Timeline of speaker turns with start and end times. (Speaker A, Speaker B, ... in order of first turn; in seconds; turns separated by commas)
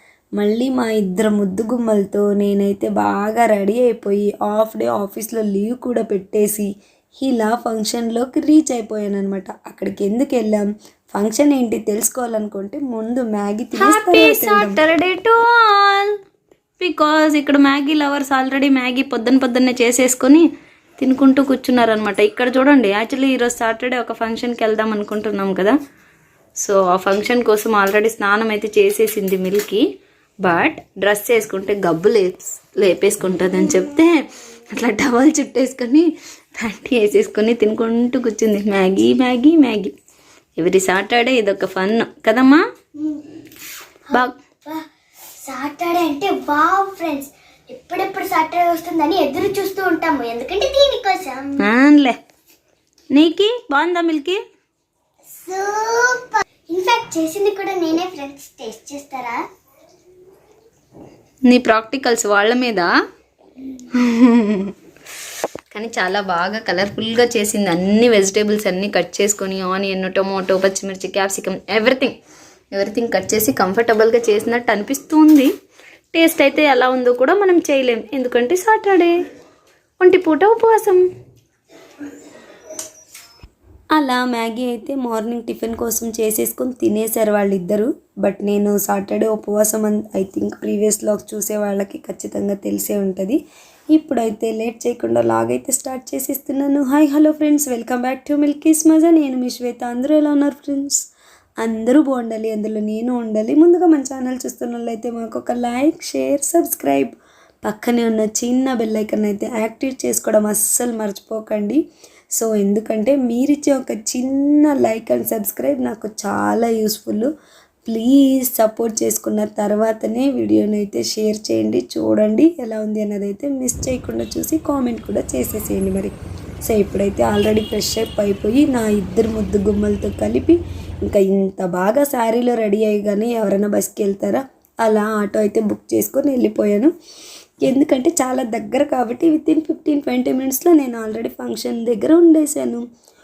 Speaker A: 0.4-6.7, Speaker A: 7.2-14.8, Speaker B: 13.8-16.1, Speaker B: 16.8-20.5, Speaker B: 21.0-25.8, Speaker B: 26.6-29.8, Speaker B: 30.4-34.1, Speaker B: 34.7-39.9, Speaker B: 40.6-42.6, Speaker C: 44.1-44.8, Speaker C: 45.4-51.6, Speaker B: 51.6-52.2, Speaker B: 53.1-54.4, Speaker C: 55.4-59.4, Speaker B: 61.5-62.9, Speaker B: 64.0-64.7, Speaker B: 65.7-72.2, Speaker B: 72.7-75.5, Speaker B: 76.1-79.2, Speaker B: 80.0-81.0, Speaker A: 84.0-93.4, Speaker A: 93.9-101.0, Speaker A: 101.6-111.8, Speaker A: 112.4-117.3, Speaker A: 117.8-126.1, Speaker A: 126.7-136.9, Speaker A: 137.6-142.8